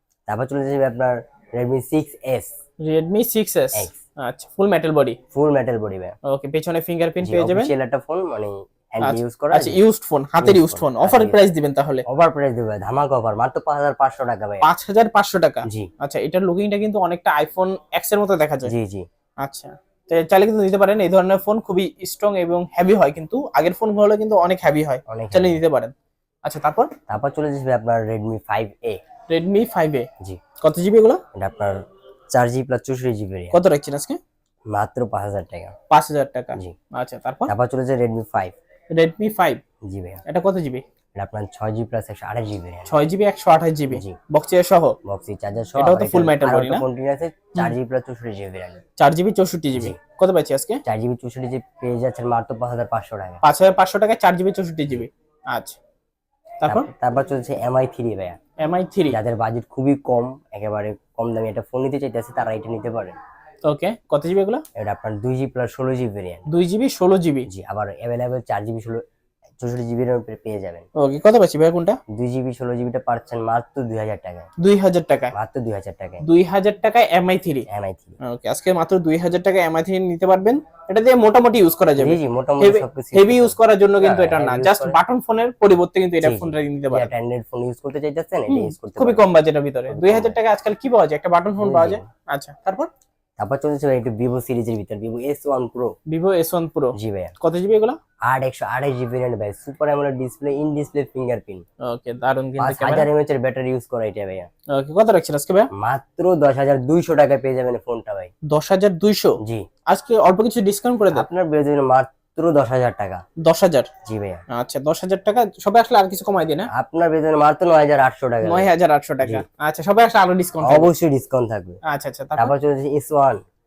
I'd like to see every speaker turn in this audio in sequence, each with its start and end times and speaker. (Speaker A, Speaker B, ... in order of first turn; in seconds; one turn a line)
Speaker A: 0.3-2.5
Speaker B: 2.8-5.2
Speaker A: 5.3-6.2
Speaker B: 6.2-7.7
Speaker A: 7.2-9.8
Speaker B: 9.0-12.0
Speaker A: 10.4-11.5
Speaker A: 12.1-14.7
Speaker B: 14.6-18.7
Speaker A: 18.6-19.1
Speaker B: 19.4-25.9
Speaker A: 25.1-25.6
Speaker B: 26.4-26.9
Speaker A: 27.1-29.0
Speaker B: 29.3-30.1
Speaker B: 30.6-31.2
Speaker A: 31.3-31.8
Speaker A: 32.3-33.6
Speaker B: 33.5-34.2
Speaker A: 34.7-35.7
Speaker B: 35.9-37.5
Speaker A: 37.5-38.5
Speaker B: 38.9-39.6
Speaker A: 39.8-40.2
Speaker B: 40.2-40.8
Speaker A: 41.1-42.9
Speaker B: 42.9-45.0
Speaker A: 43.9-44.2
Speaker A: 45.0-48.8
Speaker B: 45.8-46.8
Speaker B: 49.0-50.8
Speaker A: 50.8-53.4
Speaker B: 53.4-55.8
Speaker B: 56.6-56.9
Speaker A: 56.7-58.4
Speaker B: 58.6-59.2
Speaker A: 59.1-63.1
Speaker B: 63.6-64.6
Speaker A: 64.8-66.5
Speaker B: 66.5-67.5
Speaker A: 67.5-69.0
Speaker A: 69.6-70.9
Speaker B: 71.0-72.0
Speaker A: 72.1-74.5
Speaker B: 74.6-75.3
Speaker A: 75.3-76.2
Speaker B: 76.2-77.7
Speaker A: 77.7-78.2
Speaker B: 78.2-87.1
Speaker A: 82.0-85.0
Speaker A: 86.2-89.3
Speaker B: 88.5-92.9
Speaker A: 89.9-90.4
Speaker A: 91.6-92.0
Speaker A: 93.4-95.9
Speaker B: 96.1-98.0
Speaker A: 97.0-97.3
Speaker A: 98.2-101.6
Speaker B: 101.8-103.1
Speaker A: 102.6-104.5
Speaker B: 104.7-105.7
Speaker A: 105.7-108.3
Speaker B: 108.5-109.4
Speaker B: 109.9-111.2
Speaker A: 111.1-113.2
Speaker B: 113.4-113.9
Speaker A: 114.0-114.4
Speaker B: 114.5-116.7
Speaker A: 116.7-119.4
Speaker B: 118.4-120.9
Speaker A: 120.6-121.8
Speaker B: 121.9-122.5
Speaker A: 122.4-123.4